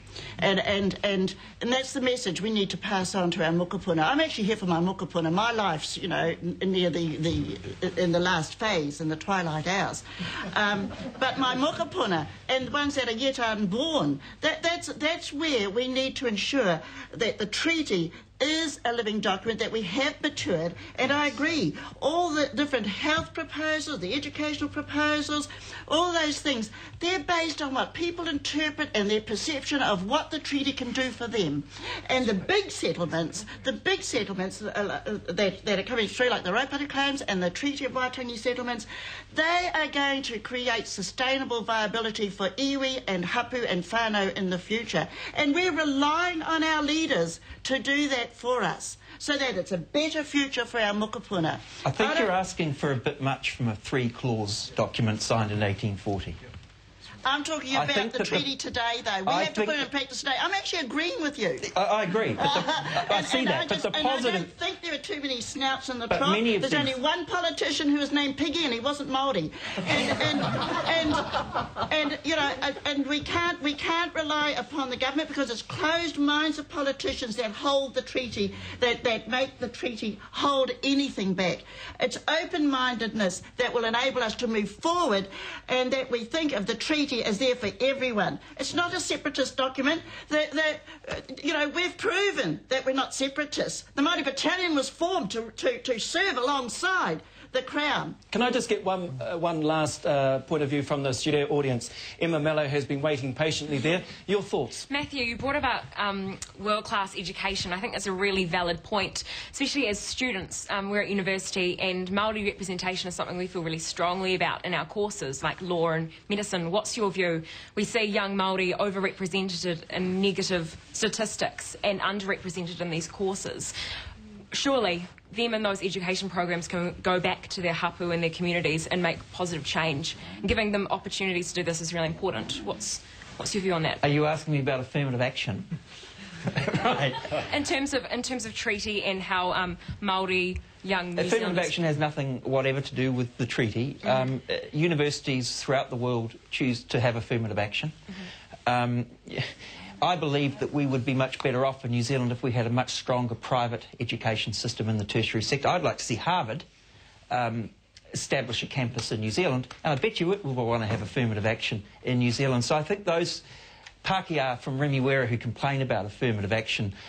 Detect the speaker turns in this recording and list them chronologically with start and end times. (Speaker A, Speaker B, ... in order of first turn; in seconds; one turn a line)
Speaker A: 0.4-52.3
Speaker B: 51.8-56.4
Speaker A: 57.2-61.6
Speaker B: 57.7-58.5
Speaker B: 59.2-59.9
Speaker B: 61.6-64.5
Speaker A: 62.4-98.2
Speaker B: 66.1-67.0
Speaker C: 98.3-104.9
Speaker D: 104.9-123.7
Speaker D: 124.5-134.0
Speaker B: 134.0-135.7
Speaker B: 136.6-137.3
Speaker D: 137.4-141.8
Speaker B: 141.2-148.0
Speaker B: 148.7-149.5
Speaker B: 150.0-156.7
Speaker B: 157.3-163.4
Speaker B: 164.0-166.9